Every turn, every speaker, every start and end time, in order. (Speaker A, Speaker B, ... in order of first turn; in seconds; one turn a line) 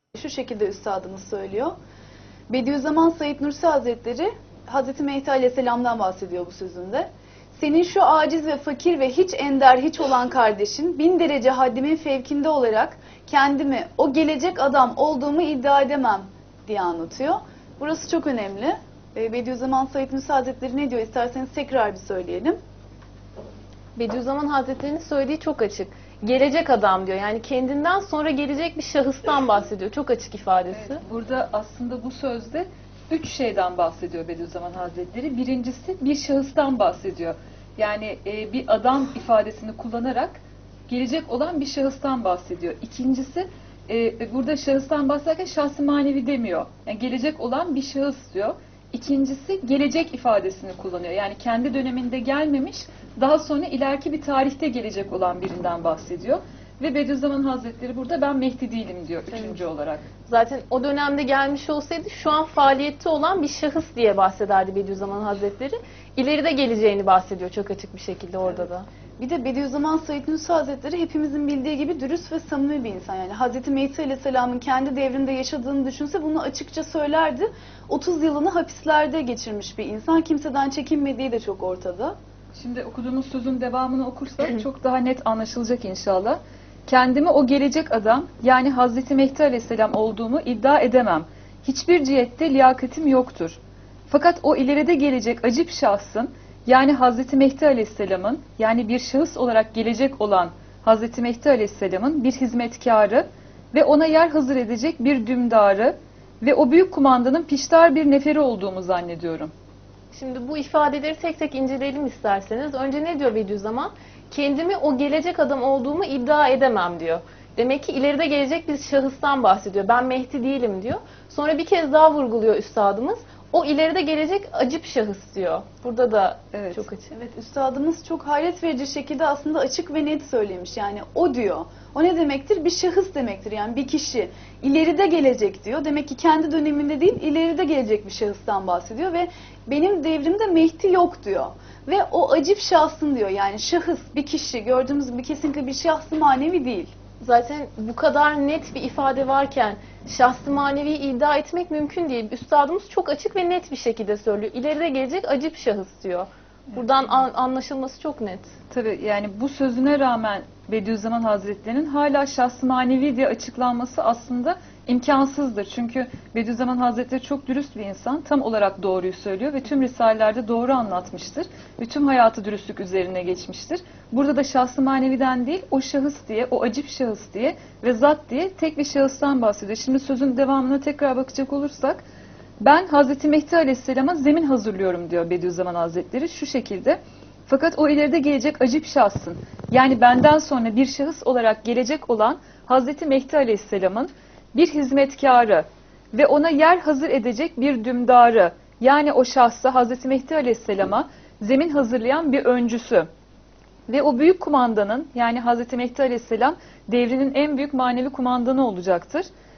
Speaker A: 0.1-1.7
Speaker A: 2.5-22.6
Speaker B: 23.9-31.0
Speaker C: 30.7-60.1
Speaker B: 59.3-59.6
Speaker B: 60.1-68.8
Speaker A: 69.2-82.1
Speaker C: 82.5-109.5
Speaker B: 110.1-127.1
Speaker C: 126.5-126.9
Speaker A: 127.1-146.9
Speaker B: 147.2-158.5
Speaker C: 156.8-157.1
Speaker C: 158.7-182.0
Speaker C: 182.6-203.1
Speaker C: 203.9-209.3